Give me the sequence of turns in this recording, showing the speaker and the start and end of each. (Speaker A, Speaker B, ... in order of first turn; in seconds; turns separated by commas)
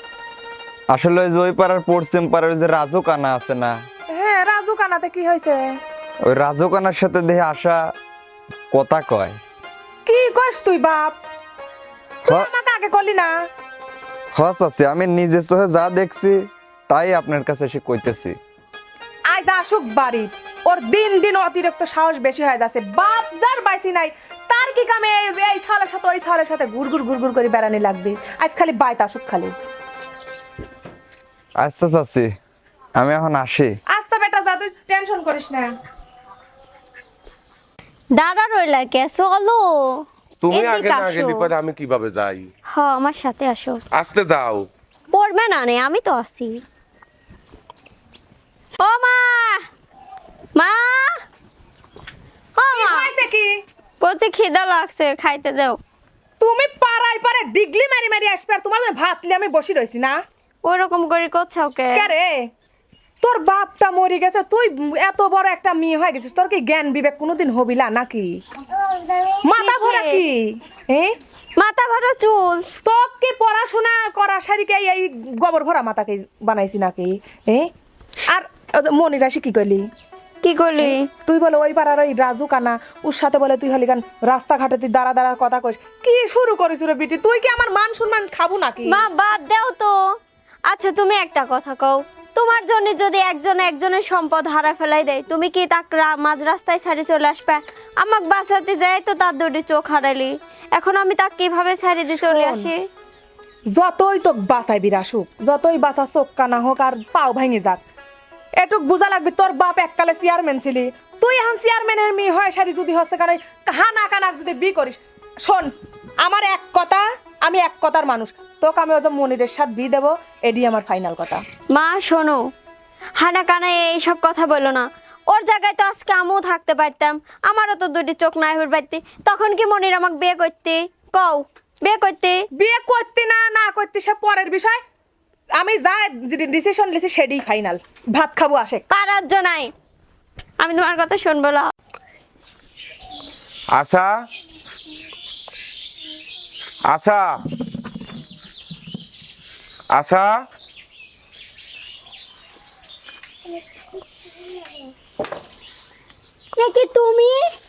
Speaker A: 0.9-3.8, Speaker B: 4.1-5.7, Speaker A: 6.3-7.8, Speaker A: 8.7-9.4, Speaker B: 10.1-11.2, Speaker B: 12.2-13.3, Speaker A: 14.4-18.4, Speaker B: 19.3-29.5, Speaker A: 31.6-32.3, Speaker A: 33.0-33.8, Speaker B: 33.9-35.7, Speaker C: 38.2-39.8, Speaker D: 40.4-42.5, Speaker C: 40.5-41.5, Speaker C: 42.7-43.8, Speaker D: 44.0-44.7, Speaker C: 45.1-46.6, Speaker C: 48.8-49.6, Speaker C: 50.6-51.2, Speaker C: 52.6-53.1, Speaker B: 52.7-53.6, Speaker C: 54.0-55.8, Speaker B: 56.4-60.2, Speaker C: 60.6-62.1, Speaker B: 61.9-62.4, Speaker B: 63.2-68.4, Speaker C: 68.8-70.2, Speaker B: 69.5-71.1, Speaker C: 71.6-72.7, Speaker B: 72.8-77.7, Speaker B: 78.3-79.8, Speaker C: 80.4-81.1, Speaker B: 80.8-89.0, Speaker C: 88.9-89.9, Speaker C: 90.7-102.8, Speaker B: 102.1-102.7, Speaker B: 103.7-107.8, Speaker B: 108.6-121.4, Speaker C: 121.7-122.4, Speaker C: 123.2-132.4, Speaker B: 132.6-134.8, Speaker B: 135.6-138.8, Speaker C: 138.9-139.7, Speaker C: 140.6-141.7, Speaker D: 143.7-144.1, Speaker D: 146.9-147.3, Speaker D: 149.9-150.3, Speaker C: 156.6-157.4